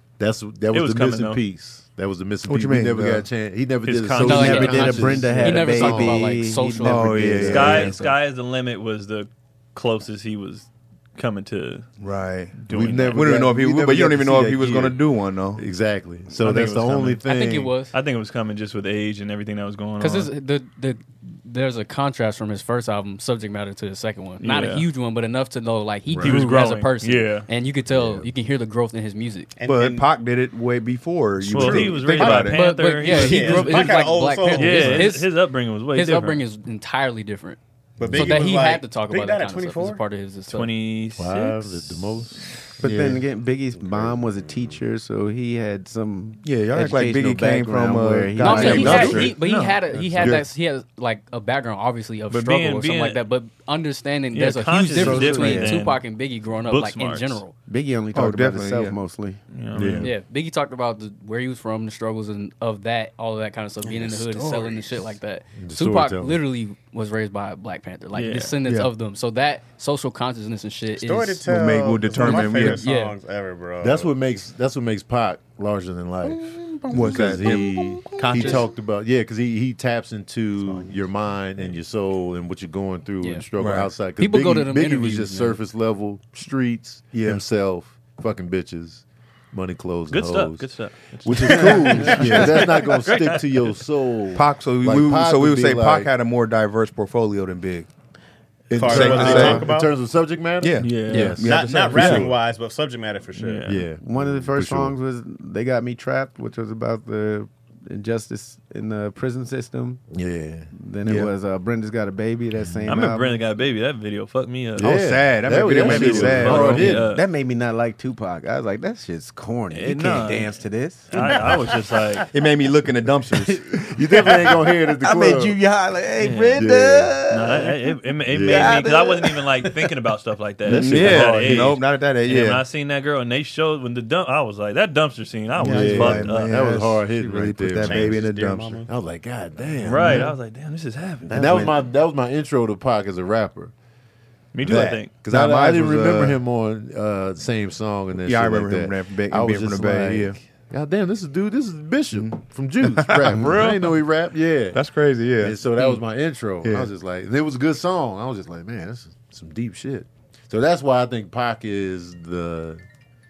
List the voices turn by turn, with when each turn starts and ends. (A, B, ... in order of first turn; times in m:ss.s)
0:00.2-0:06.2 A
0:00.7-0:01.4 B
0:02.4-0:03.2 C
0:03.8-0:05.3 B
0:04.2-0:08.0 D
0:04.2-0:07.8 E
0:06.8-0:08.0 C
0:07.3-0:07.9 A
0:07.5-0:11.9 B
0:12.0-0:15.6 C
0:12.6-0:13.3 B
0:12.7-0:15.0 A
0:15.6-0:17.7 A
0:16.4-0:17.2 B
0:16.4-0:16.7 C
0:17.2-0:17.9 D
0:17.9-0:20.3 B
0:20.0-0:29.5 D
0:24.4-0:24.9 B
0:26.1-0:26.5 A
0:26.2-0:27.5 B
0:27.9-0:28.3 A
0:29.6-0:30.1 F
0:29.6-0:32.6 C
0:31.4-0:36.4 B
0:31.5-0:31.8 A
0:31.6-0:35.1 F
0:32.4-0:35.4 D
0:35.9-0:37.6 D
0:38.0-0:40.0 F
0:38.0-0:38.4 A
0:38.1-0:40.7 D
0:40.5-0:42.3 B
0:41.2-0:43.2 A
0:42.8-0:49.3 E
0:42.8-0:43.2 C
0:43.9-0:44.6 F
0:46.4-0:49.3 C
0:48.4-0:57.5 D
0:48.7-0:49.8 B
0:49.9-0:50.4 A
0:50.2-0:50.4 C
0:52.3-0:53.2 B
0:54.3-0:56.1 B
0:54.9-0:55.8 E
0:56.6-0:57.4 B
0:57.7-0:59.4 E
0:58.1-0:59.0 C
0:59.5-1:00.1 B
0:59.7-1:00.1 A
1:00.0-1:11.4 D
1:03.8-1:05.1 F
1:05.6-1:06.4 A
1:08.1-1:08.6 B
1:11.0-1:14.1 F
1:11.4-1:12.8 C
1:12.2-1:13.2 D
1:13.8-1:30.7 A
1:16.2-1:18.3 F
1:16.9-1:18.7 C
1:18.3-1:18.6 D
1:23.6-1:24.0 C
1:24.1-1:25.6 D
1:27.1-1:27.4 C
1:30.1-1:33.7 B
1:31.2-1:36.1 A
1:31.4-1:32.6 C
1:34.3-1:37.9 C
1:38.7-1:42.3 A
1:38.7-1:39.9 F
1:38.8-1:39.7 C
1:39.2-1:39.6 E
1:40.6-1:42.3 C
1:40.8-1:41.3 B
1:41.1-1:41.4 D
1:41.4-1:43.7 F
1:43.3-1:43.8 B
1:43.6-1:45.0 A
1:44.0-1:50.0 E
1:50.1-1:50.7 A
1:50.7-1:53.4 E
1:51.0-1:51.3 C
1:52.8-1:55.0 B
1:54.8-1:57.0 A
1:54.8-1:57.0 C
1:55.7-2:02.2 E
1:55.7-1:57.2 B
1:59.7-2:00.6 B
2:01.1-2:02.3 B
2:02.3-2:03.8 C
2:03.3-2:07.8 E
2:03.9-2:05.6 A
2:06.2-2:06.6 B
2:06.6-2:07.2 A
2:07.3-2:16.6 B
2:08.3-2:08.8 A
2:08.4-2:09.8 E
2:10.7-2:11.7 A
2:10.7-2:12.6 C
2:15.6-2:18.8 C
2:15.6-2:18.2 A
2:17.8-2:18.9 F
2:18.8-2:20.3 A
2:19.8-2:21.7 B
2:20.0-2:20.3 C
2:21.2-2:21.8 E
2:21.3-2:23.7 A
2:24.5-2:25.1 B
2:24.6-2:34.8 A
2:24.6-2:26.4 C
2:28.2-2:30.4 C
2:32.1-2:33.8 C
2:34.7-2:35.6 C
2:35.4-2:42.8 A
2:36.6-2:36.9 C